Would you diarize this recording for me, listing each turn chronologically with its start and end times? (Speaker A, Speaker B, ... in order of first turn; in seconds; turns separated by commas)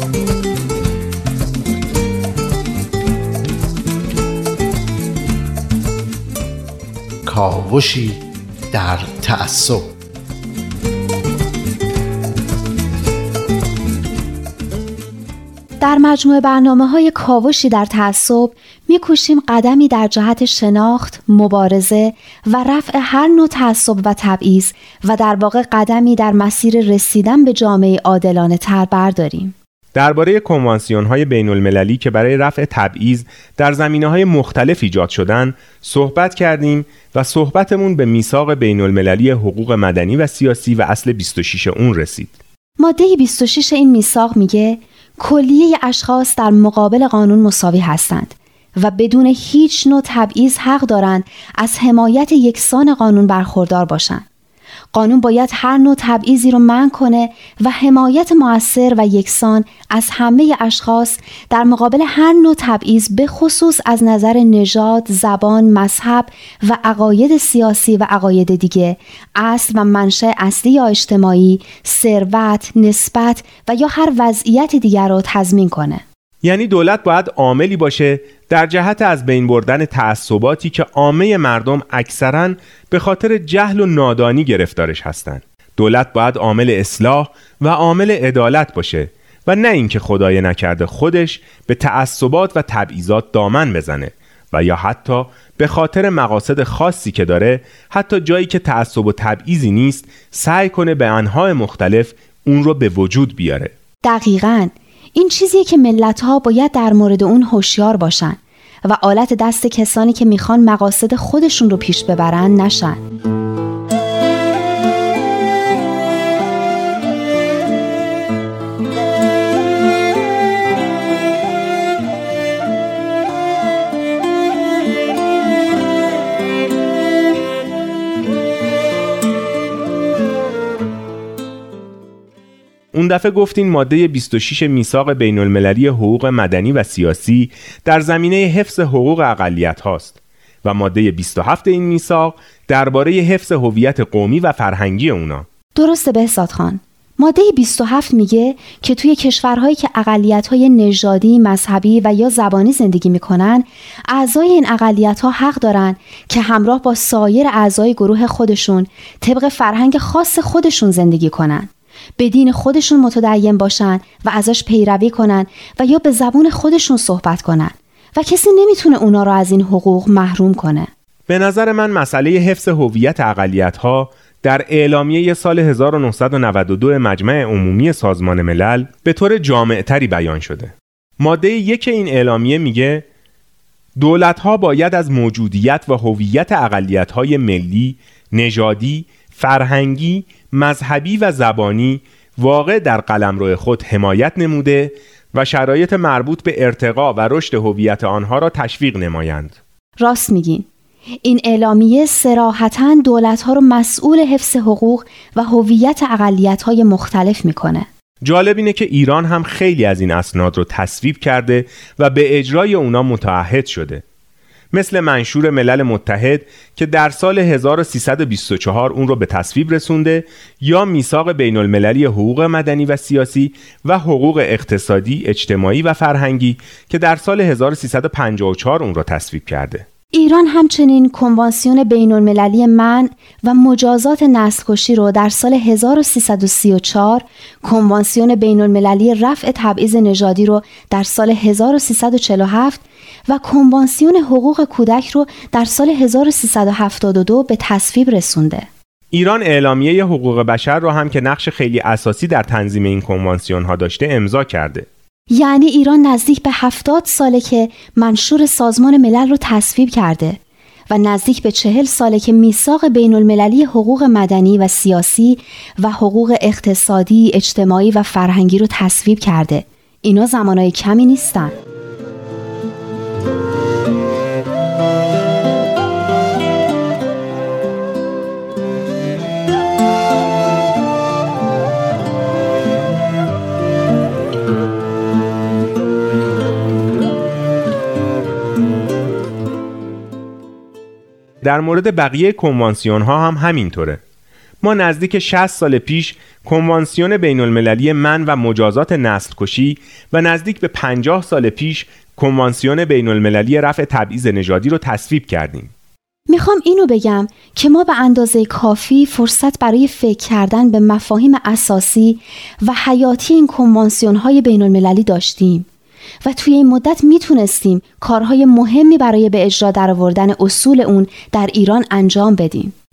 Speaker A: 7.2-9.9, Speaker B: 15.8-29.5, Speaker C: 29.9-42.4, Speaker B: 42.8-54.2, Speaker B: 54.9-76.0, Speaker C: 76.4-103.7, Speaker B: 104.0-113.0, Speaker C: 132.9-145.5, Speaker B: 145.8-170.9, Speaker C: 171.3-183.1, Speaker C: 184.0-199.6, Speaker B: 200.0-200.7, Speaker B: 201.2-207.9, Speaker C: 208.2-214.0, Speaker C: 214.7-229.8, Speaker B: 230.1-248.7, Speaker C: 249.1-254.9, Speaker B: 255.3-271.6, Speaker C: 291.4-294.0, Speaker C: 294.6-305.7, Speaker B: 306.3-315.7, Speaker B: 316.2-322.7